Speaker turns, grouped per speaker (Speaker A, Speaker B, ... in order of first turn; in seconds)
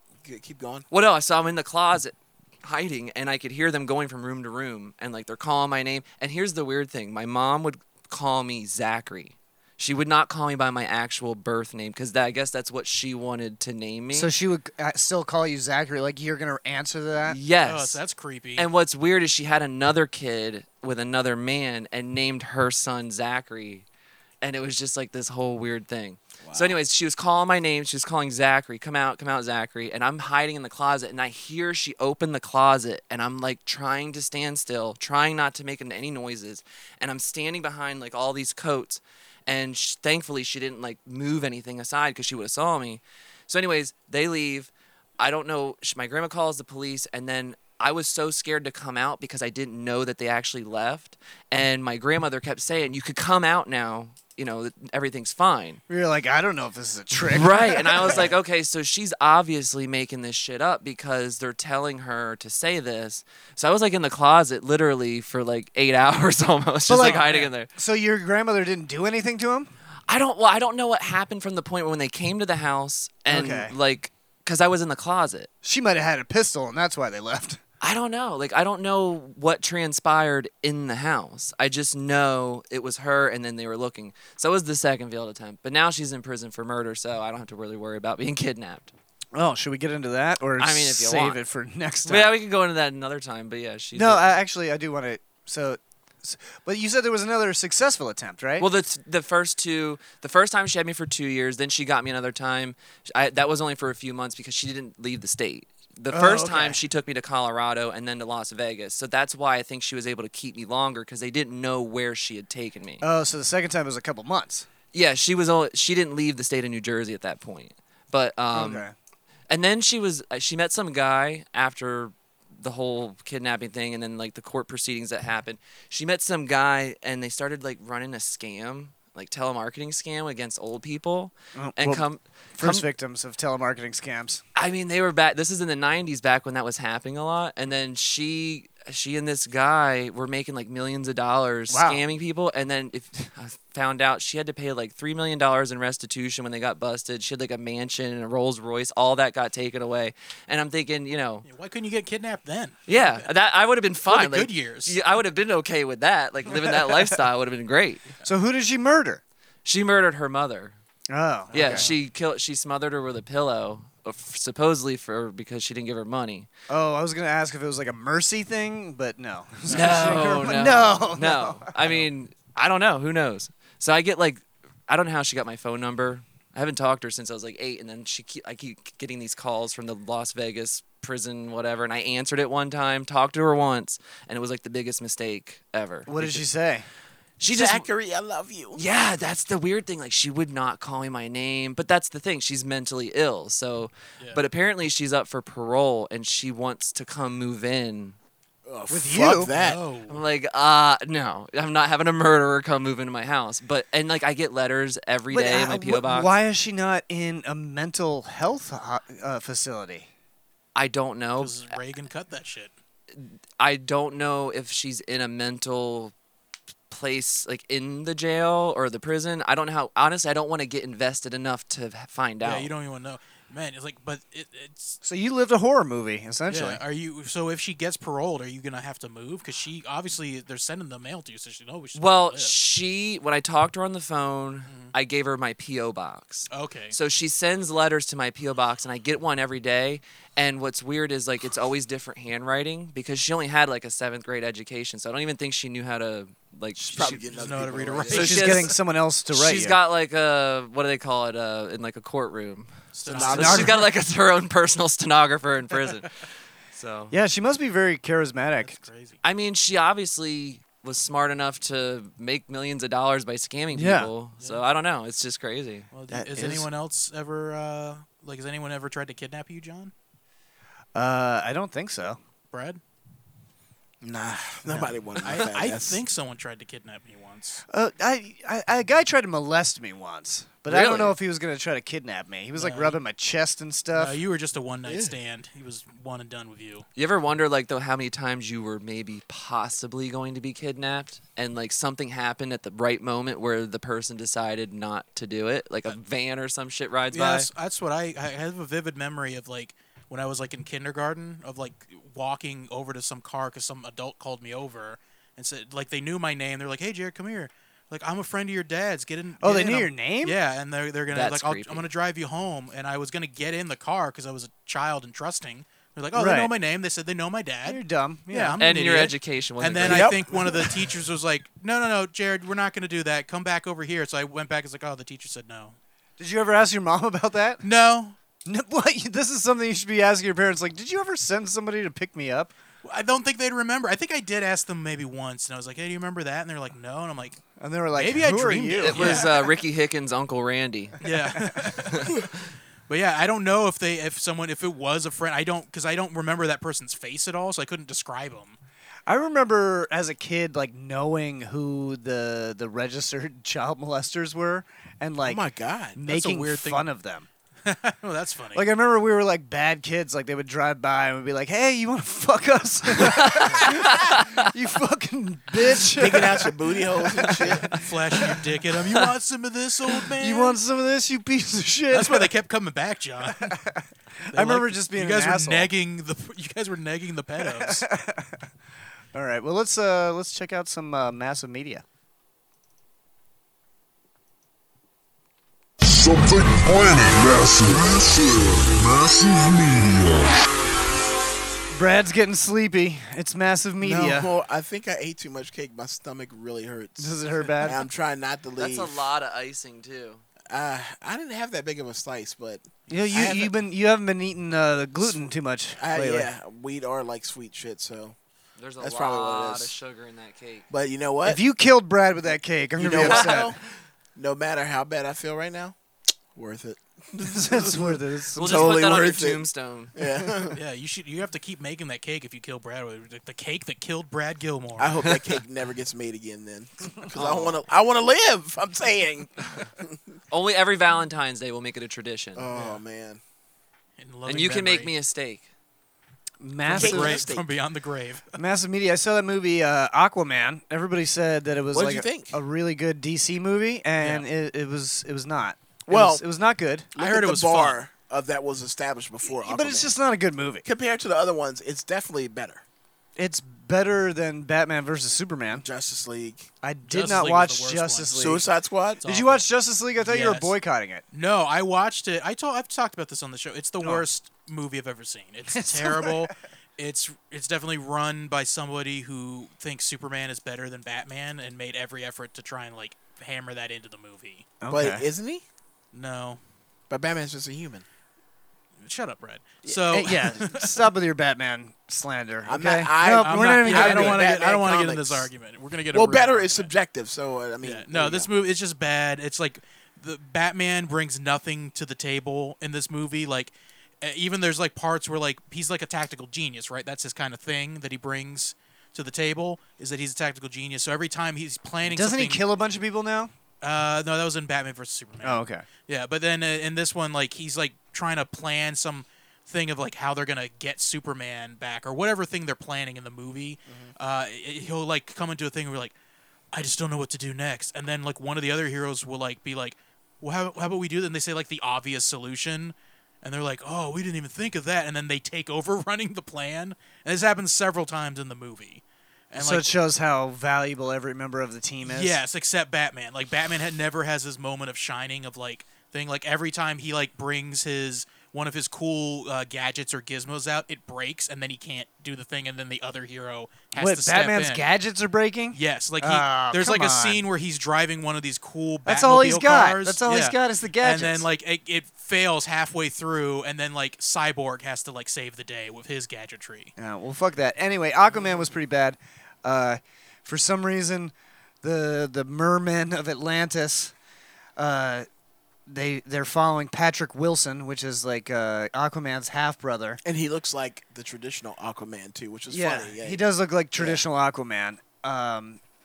Speaker A: 0.2-0.9, 26.4-26.8, 187.5-188.8, 198.7-199.8, 246.9-248.4, 253.1-253.8, 274.0-276.0, 284.9-285.1, 319.8-320.7, 355.2-356.0, 365.9-367.8, 393.8-399.0, 400.5-403.5, 405.0-408.1, 408.8-409.7, 410.7-411.4, 412.8-413.6, 414.1-415.8, 416.3-420.6, 424.8-430.0, 432.4-433.2, 436.7-437.5, 441.7-442.4, 445.9-446.2, 446.9-449.9, 450.6-452.6, 455.5-456.5, 458.1-459.0, 474.7-475.4, 476.9-477.8, 479.6-480.0, 482.4-485.3, 485.9-488.3, 570.0-573.2, 573.8-574.0
Speaker B: 0.9-14.3, 17.3-18.0, 18.6-23.8, 24.4-55.8, 57.3-67.7, 70.1-75.5, 77.8-88.9, 90.6-91.4, 92.0-94.2, 98.6-113.0, 114.9-118.8, 119.5-132.8, 134.6-151.4, 152.9-158.1, 159.6-160.7, 161.5-166.5, 169.7-186.4, 187.4-187.9, 188.7-198.2, 200.1-206.3, 210.7-211.6, 213.1-216.1, 216.9-222.7, 231.9-247.2, 248.1-248.8, 249.3-257.1, 259.2-265.9, 280.7-281.1, 286.9-297.5, 311.1-311.9, 318.6-320.1, 338.8-341.0, 363.1-364.5, 398.6-400.2, 408.6-410.7, 413.0-413.4, 418.4-419.9, 427.2-427.5, 430.3-432.4, 434.3-435.5
Speaker C: 14.1-17.4, 55.9-58.3, 66.9-69.7, 73.3-73.7, 75.6-77.6, 89.3-92.3, 93.9-98.7, 106.1-106.8, 113.0-114.7, 118.5-118.9, 131.6-132.1, 132.6-134.4, 141.7-142.0, 156.5-157.0, 158.2-159.2, 161.1-161.9, 166.7-172.1, 186.1-186.9, 198.9-199.5, 205.3-210.1, 225.0-226.8, 248.1-249.8, 253.3-253.8, 257.1-258.8, 263.7-264.1, 266.1-266.7, 270.9-272.2, 277.7-284.2, 309.4-310.4, 316.1-316.5, 317.6-318.6, 326.2-327.6, 328.4-332.5, 337.6-339.4, 341.4-341.8, 349.1-355.4, 355.9-357.3, 358.5-367.8, 370.1-372.3, 373.3-375.7, 377.4-378.5, 379.1-381.8, 391.7-394.3, 397.0-397.8, 402.9-406.3, 411.2-413.6, 417.2-418.8, 436.4-437.3, 438.4-446.9, 449.3-450.6, 453.1-455.6, 456.6-458.5, 459.0-461.0, 463.8-464.1, 465.5-466.3, 474.6-475.1, 479.9-484.3, 501.8-503.3, 505.2-505.6, 529.3-532.2, 543.7-547.2, 548.8-551.3, 556.8-563.9, 564.6-565.1, 565.7-570.0, 572.5-575.6
Speaker D: 17.6-18.7, 67.0-67.5, 151.4-153.2, 154.1-155.0, 161.5-162.0, 169.7-170.2, 199.5-200.2, 211.4-212.7, 222.4-225.0, 226.5-232.6, 234.7-234.9, 236.5-236.9, 247.1-248.7, 252.9-253.8, 258.6-259.2, 265.9-269.9, 272.5-272.8, 275.2-277.6, 282.6-283.0, 283.9-286.8, 297.1-325.8, 327.6-328.1, 332.8-337.4, 337.9-339.4, 341.0-342.1, 342.9-348.6, 356.1-356.9, 357.6-358.7, 367.6-370.6, 371.9-373.6, 374.3-377.9, 420.6-424.9, 432.5-432.8, 434.0-434.9, 436.6-438.4, 444.0-444.3, 447.0-447.8, 456.9-458.4, 459.0-459.4, 460.0-460.6, 461.1-474.4, 475.9-476.4, 478.8-480.8, 483.1-486.7, 487.6-502.4, 503.6-515.9, 516.5-529.7, 531.8-544.6, 545.5-556.7
Speaker E: 385.8-390.4